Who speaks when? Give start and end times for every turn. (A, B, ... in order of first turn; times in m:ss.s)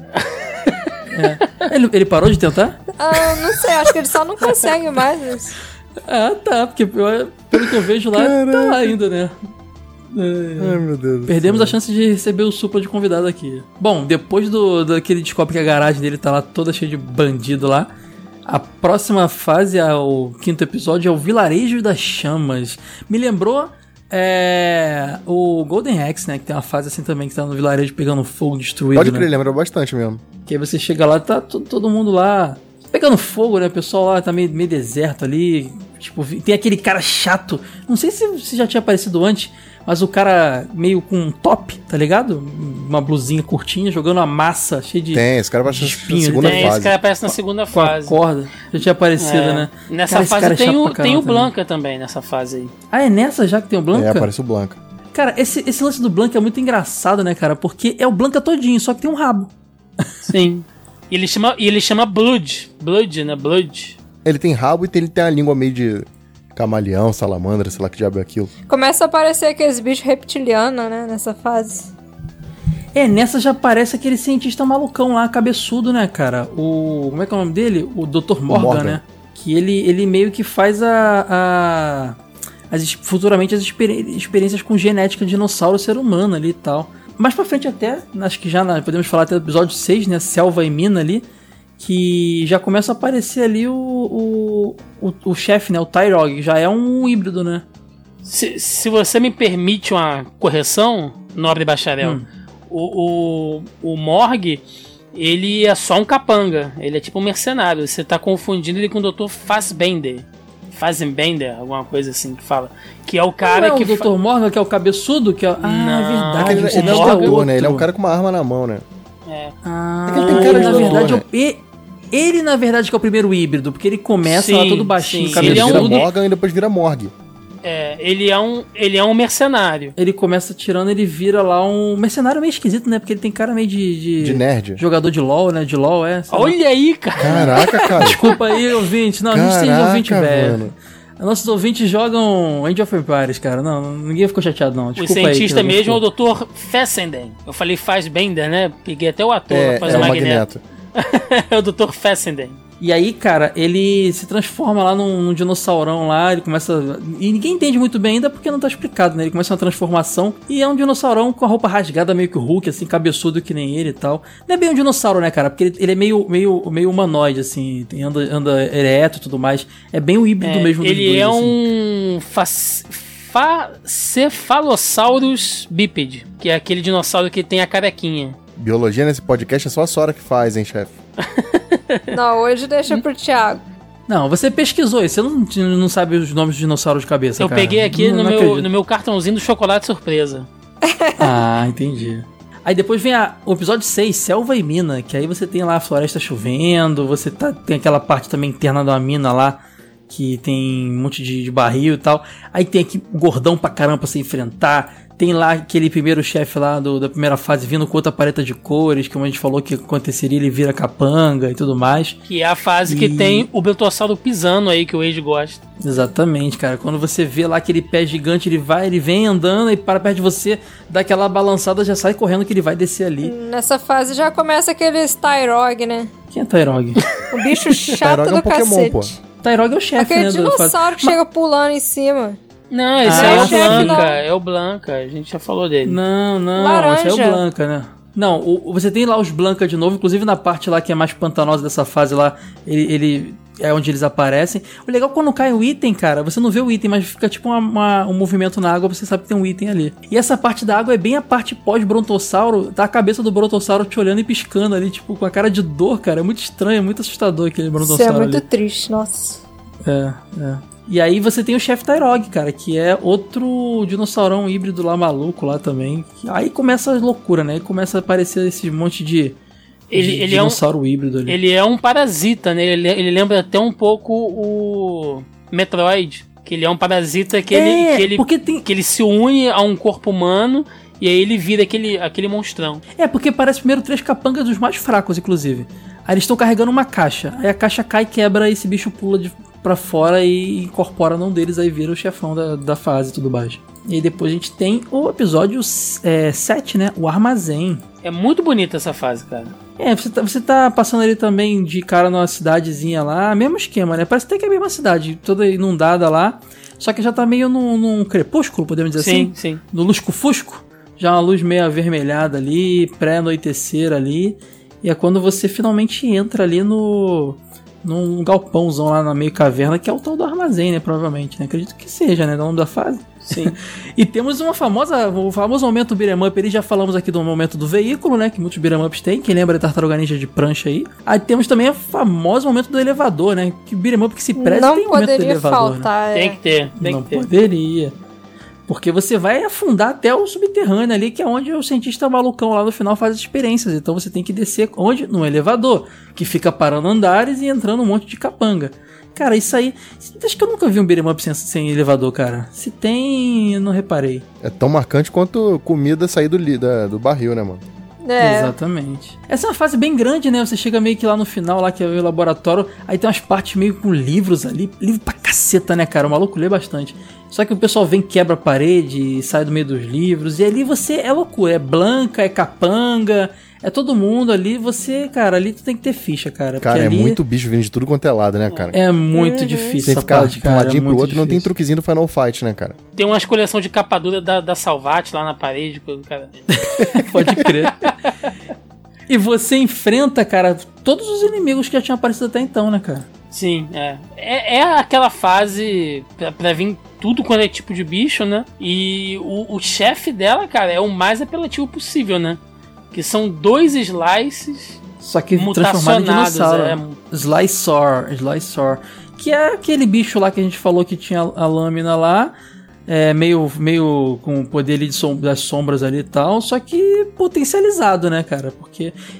0:00.2-0:00.9 A
0:01.1-0:02.8 B
0:03.0-0:05.6 C
0:06.0-0:09.4 B
0:07.5-0:09.0 D
0:10.1-0:17.9 B
0:10.6-0:11.8 D
0:18.5-0:29.3 B
0:28.9-0:30.2 D
0:30.5-0:46.8 B
0:45.1-0:47.0 D
0:46.4-0:48.2 A
0:47.7-0:51.5 B
0:49.2-0:52.7 A
0:52.9-0:54.3 B
0:53.9-0:54.8 D
0:55.1-1:00.3 B
1:00.2-1:04.0 A
1:04.2-1:08.5 D
1:08.7-1:11.9 C
1:12.9-1:22.2 B
1:18.5-1:19.0 D
1:22.7-1:31.3 B
1:31.8-1:37.6 B
1:38.2-1:54.1 A
1:53.4-1:57.9 B
1:55.6-1:57.3 A
1:56.4-1:58.8 D
1:59.3-1:59.5 A
1:59.6-2:06.0 B
2:00.1-2:01.2 D
2:00.1-2:01.1 A
2:04.2-2:06.1 A
2:05.3-2:07.1 D
2:07.6-2:09.9 A
2:10.0-2:16.6 B
2:14.2-2:14.8 D
2:16.3-2:17.6 A
2:17.2-2:18.3 D
2:17.2-2:26.0 B
2:19.3-2:20.7 D
2:25.0-2:32.6 A
2:29.5-2:30.6 D
2:29.9-2:30.2 B
2:32.8-2:51.6 B
2:50.4-2:58.4 A
2:58.6-3:00.9 D
3:01.2-3:02.0 A
3:02.1-3:03.6 C
3:04.1-3:08.7 B
3:07.4-3:10.5 A
3:10.8-3:11.3 C
3:11.2-3:32.2 B
3:32.3-3:35.6 A
3:32.9-3:33.5 B
3:35.8-3:43.3 B
3:43.2-3:46.1 C
3:46.3-3:47.0 B
3:47.3-3:49.2 C
3:48.0-3:49.1 D
3:49.4-3:51.2 B
3:50.0-3:52.4 C
3:52.7-3:56.0 A
3:53.0-3:54.0 B
3:53.1-3:54.2 C
3:55.9-4:18.4 B
3:56.6-3:57.4 C
4:17.8-4:19.4 C
4:19.8-4:29.4 B
4:29.9-4:30.6 A
4:29.9-4:31.4 B
4:31.3-4:42.8 A
4:37.5-4:38.6 B
4:43.0-4:57.8 B
4:58.0-4:59.5 A
4:59.8-5:35.9 B
5:08.9-5:09.6 A
5:23.3-5:23.5 A
5:34.4-5:36.4 C
5:36.1-5:37.3 A
5:36.8-5:38.0 B
5:38.7-5:54.2 B
5:54.4-5:57.6 D
5:58.0-5:58.5 C
5:58.2-6:17.2 B
6:16.6-6:18.8 D
6:18.7-6:21.5 B
6:19.1-6:19.7 C
6:19.8-6:22.8 D
6:23.0-6:26.4 A
6:26.6-6:27.9 B
6:27.7-6:27.9 A
6:29.1-6:33.1 B
6:33.3-6:42.4 A
6:42.9-6:44.8 A
6:45.0-6:52.3 B
6:45.3-6:47.0 A
6:52.9-6:59.0 B